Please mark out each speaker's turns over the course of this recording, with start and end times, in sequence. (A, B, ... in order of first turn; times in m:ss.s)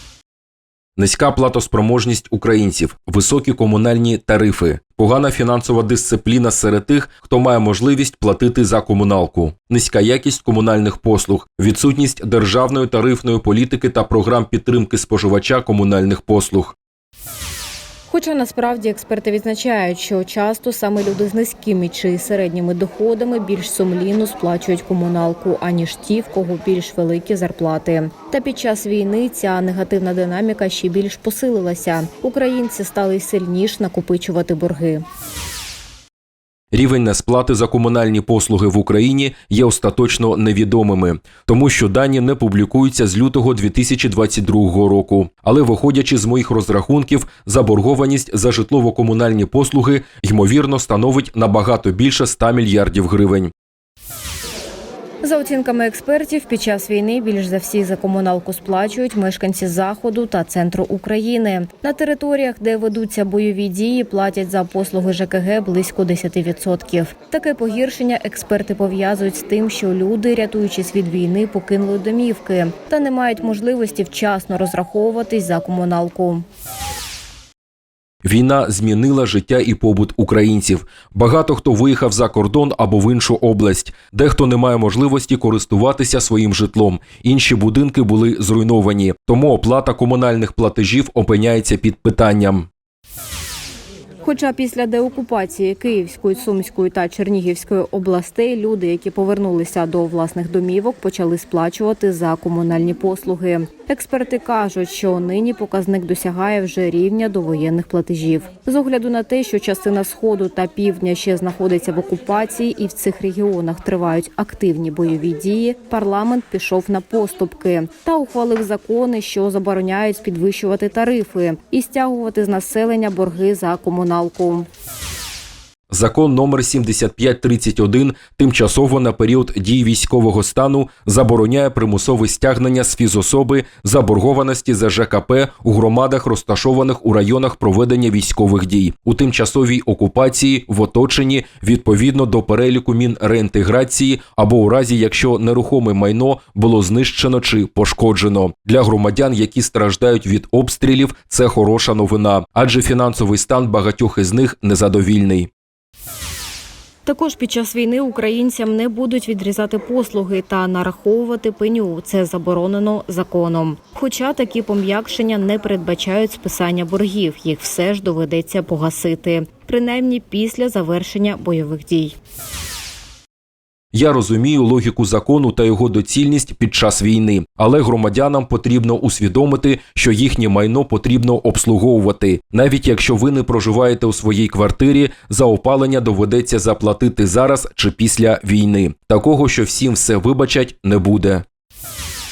0:01.0-0:16.8 A
0:18.1-0:35.0 B
0:36.7-0:53.5 A
0:55.2-1:16.4 B
1:18.2-1:32.7 A
1:34.2-2:04.7 B
2:05.9-2:35.5 A
2:37.0-2:52.2 B
2:53.9-3:11.4 A